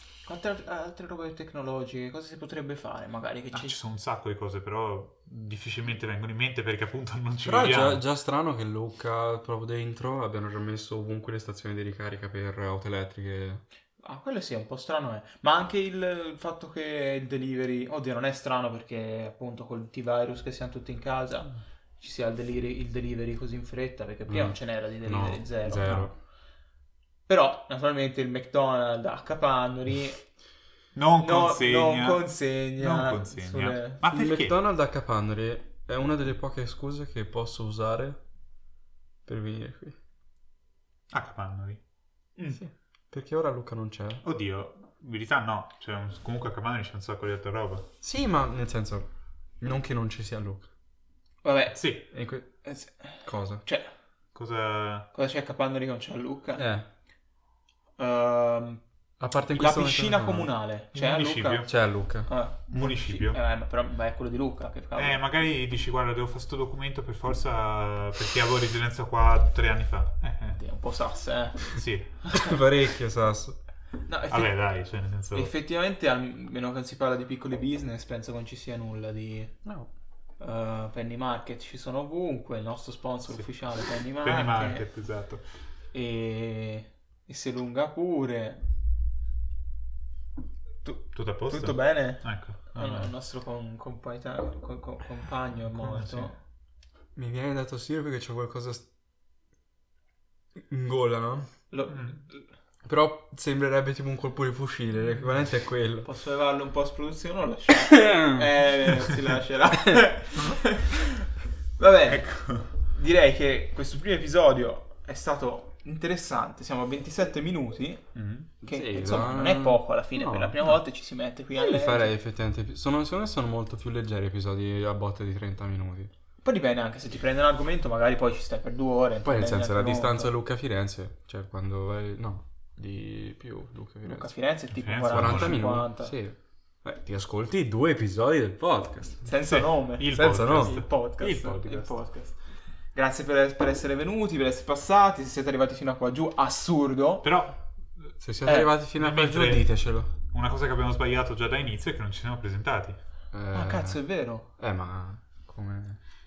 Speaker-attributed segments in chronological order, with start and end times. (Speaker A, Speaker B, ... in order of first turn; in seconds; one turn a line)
Speaker A: 0.2-3.8
Speaker B: 3.5-8.0
Speaker C: 7.4-13.6
Speaker A: 14.0-26.0
Speaker C: 24.3-26.1
Speaker A: 27.3-30.2
Speaker B: 30.9-34.6
Speaker A: 31.2-34.0
Speaker C: 34.0-38.2
Speaker C: 39.2-40.0
Speaker B: 41.1-41.8
Speaker C: 42.6-44.2
Speaker B: 44.2-47.9
Speaker C: 48.0-49.1
Speaker C: 49.6-50.7
Speaker A: 51.4-51.8
Speaker B: 51.7-52.0
Speaker C: 52.1-52.6
Speaker A: 52.6-53.9
Speaker C: 53.2-53.6
Speaker B: 54.3-55.1
Speaker A: 55.1-56.6
Speaker C: 56.6-56.9
Speaker A: 58.0-58.8
Speaker C: 59.2-60.5
Speaker A: 59.5-61.7
Speaker B: 60.9-61.7
Speaker C: 61.6-62.3
Speaker A: 62.2-65.2
Speaker B: 62.7-63.4
Speaker B: 65.0-70.6
Speaker A: 70.6-71.8
Speaker B: 71.7-72.2
Speaker C: 72.3-73.6
Speaker A: 74.1-74.5
Speaker B: 74.3-75.5
Speaker A: 75.3-79.6
Speaker A: 80.4-84.8
Speaker B: 84.0-85.4
Speaker A: 85.9-88.6
Speaker A: 90.8-96.3
Speaker B: 91.1-93.1
Speaker B: 96.0-96.3
Speaker C: 97.1-98.9
Speaker C: 100.6-101.5
Speaker A: 101.7-102.4
Speaker B: 101.9-102.2
Speaker C: 102.8-106.1
Speaker A: 106.0-118.1
Speaker C: 108.0-108.4
Speaker B: 112.1-112.7
Speaker B: 118.1-118.5
Speaker C: 118.6-120.7
Speaker A: 118.6-122.1
Speaker C: 121.5-126.1
Speaker A: 126.4-130.3
Speaker C: 129.2-134.3
Speaker A: 134.0-136.1
Speaker B: 134.7-135.6
Speaker C: 135.1-139.3
Speaker A: 139.2-142.4
Speaker B: 139.4-141.9
Speaker C: 140.1-140.7
Speaker A: 142.9-147.3
Speaker B: 147.2-148.1
Speaker C: 148.2-150.1
Speaker B: 148.9-149.7
Speaker B: 150.3-153.0
Speaker C: 153.3-154.0
Speaker A: 153.5-154.5
Speaker C: 154.6-156.0